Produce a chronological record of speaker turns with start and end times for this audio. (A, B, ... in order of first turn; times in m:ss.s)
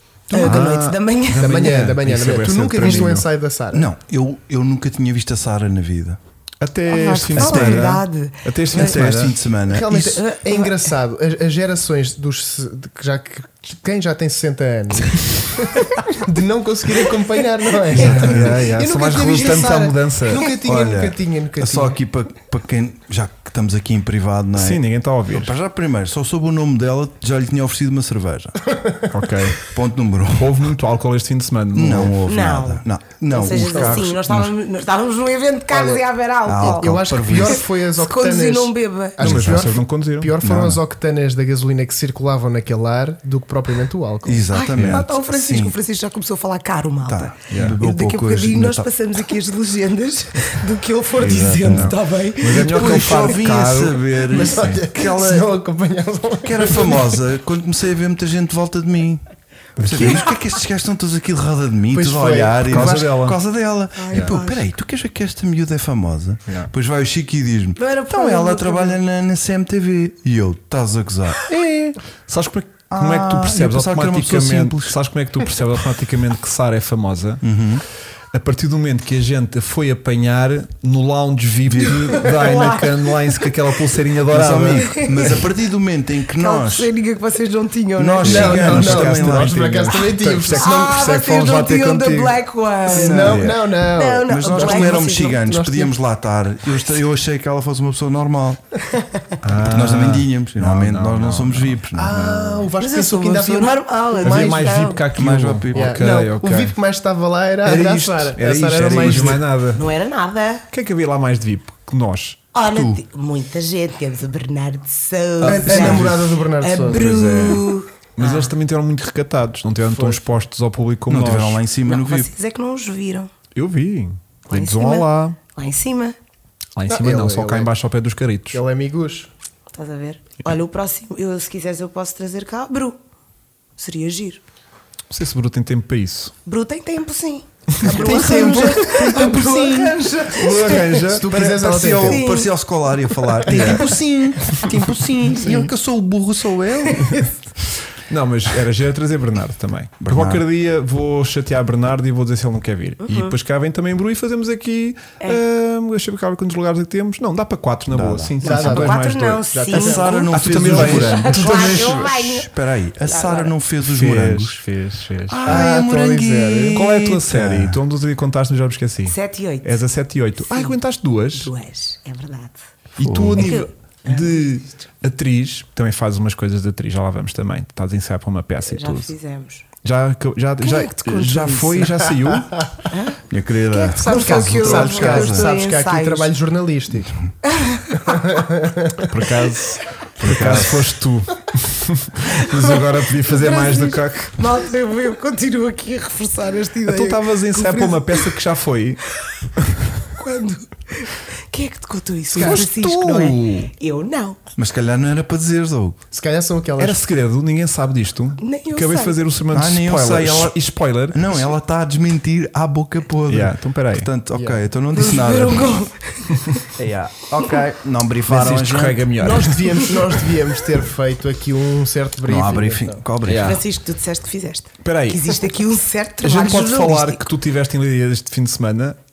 0:00.3-0:01.6 A
0:00.3-0:03.3 B
0:00.4-0:00.6 C
0:01.4-0:03.9 D
0:02.8-0:03.1 C
0:03.7-0:06.2 C
0:06.6-0:09.4 B
0:06.9-0:08.9 A
0:07.3-0:08.0 C
0:08.7-0:10.2 C
0:09.7-0:22.0 D
0:10.0-0:10.9 A
0:17.9-0:20.6 B
0:18.0-0:18.6 C
0:20.6-0:28.7 C
0:24.6-0:25.5 B
0:28.7-0:29.0 D
0:29.1-0:29.7 B
0:29.6-0:30.7 C
0:30.3-0:32.2 B
0:31.7-0:34.5 C
0:32.2-0:39.2 A
0:33.5-0:34.0 B
0:35.7-0:36.0 D
0:36.5-0:37.6 C
0:36.6-0:44.5 D
0:39.2-0:40.3 B
0:39.3-0:39.6 C
0:40.4-0:40.8 C
0:44.2-0:45.8 C
0:44.5-0:53.4 A
0:44.7-0:45.0 B
0:47.1-0:48.9 C
0:47.5-0:47.8 B
0:51.2-0:55.5 C
0:51.2-0:54.8 B
0:54.3-0:57.2 D
0:56.4-0:59.2 C
0:59.8-1:00.2 B
0:59.8-1:11.4 C
0:59.9-1:00.4 A
1:01.9-1:03.2 D
1:02.7-1:03.4 B
1:04.0-1:04.7 A
1:07.8-1:09.0 A
1:12.3-1:17.4 B
1:12.9-1:15.0 C
1:17.4-1:17.8 C
1:18.3-1:25.0 B
1:21.6-1:22.2 C
1:22.1-1:23.5 A
1:24.3-1:26.9 C
1:24.8-1:25.4 A
1:26.3-1:28.8 A
1:28.0-1:30.0 C
1:28.2-1:32.4 B
1:28.2-1:30.8 D
1:30.6-1:35.4 A
1:32.9-1:36.0 D
1:32.9-1:38.6 C
1:38.9-1:39.4 A
1:39.4-1:42.7 B
1:39.7-1:42.2 C
1:41.9-1:44.7 D
1:42.8-1:45.0 A
1:44.2-1:46.8 B
1:45.2-1:46.0 C
1:45.7-1:49.5 D
1:47.6-1:49.8 B
1:49.7-1:50.6 A
1:50.7-1:52.4 B
1:52.5-1:58.5 A
1:52.7-1:53.0 C
1:55.4-1:57.6 D
1:55.5-1:56.3 C
1:56.9-2:01.6 B
1:59.9-2:00.3 D
2:01.1-2:02.3 C
2:01.8-2:03.3 A
2:03.6-2:05.4 B
2:04.5-2:06.2 A
2:06.8-2:08.6 B
2:06.9-2:07.7 D
2:08.5-2:09.3 D
2:09.7-2:13.0 A
2:13.8-2:14.4 A
2:15.1-2:16.3 B
2:16.5-2:21.0 A
2:17.8-2:19.2 B
2:17.8-2:19.4 D
2:18.9-2:20.1 C
2:20.3-2:22.0 B
2:20.9-2:22.3 D
2:21.4-2:27.3 C
2:22.0-2:22.5 A
2:23.3-2:23.9 A
2:25.4-2:25.7 B
2:26.8-2:27.3 A
2:28.0-2:42.1 B
2:30.0-2:30.4 C
2:33.0-2:33.3 A
2:37.9-2:38.4 C
2:38.4-2:42.5 A
2:38.4-2:40.1 D
2:40.0-2:44.6 C
2:43.0-2:43.5 A
2:43.8-2:45.7 B
2:45.3-2:47.8 C
2:45.4-2:46.8 D
2:46.7-2:51.5 B
2:49.1-2:49.8 A
2:50.4-2:50.8 A
2:51.3-2:52.6 A
2:53.0-2:59.1 B
2:53.0-2:53.6 C
2:53.4-2:54.8 A
2:58.6-2:59.6 A
2:59.8-3:02.7 B
3:00.6-3:02.0 A
3:02.9-3:06.3 A
3:03.3-3:05.5 C
3:04.0-3:07.2 D
3:07.4-3:08.4 A
3:08.0-3:09.1 D
3:09.0-3:14.4 B
3:10.2-3:10.9 C
3:12.2-3:17.9 A
3:16.9-3:20.0 B
3:17.6-3:17.9 D
3:20.1-3:24.4 A
3:22.3-3:22.6 D
3:22.4-3:23.7 B
3:24.6-3:26.0 C
3:26.1-3:27.0 D
3:26.8-3:31.4 B
3:28.4-3:29.2 A
3:29.5-3:30.6 C
3:31.1-3:35.8 C
3:33.3-3:34.1 B
3:34.3-3:34.6 D
3:34.9-3:36.6 A
3:36.8-3:39.0 C
3:38.3-3:40.3 B
3:39.2-3:43.0 D
3:42.2-3:43.6 C
3:43.3-3:43.6 B
3:43.4-3:47.2 A
3:44.8-3:45.4 B
3:46.2-3:49.0 B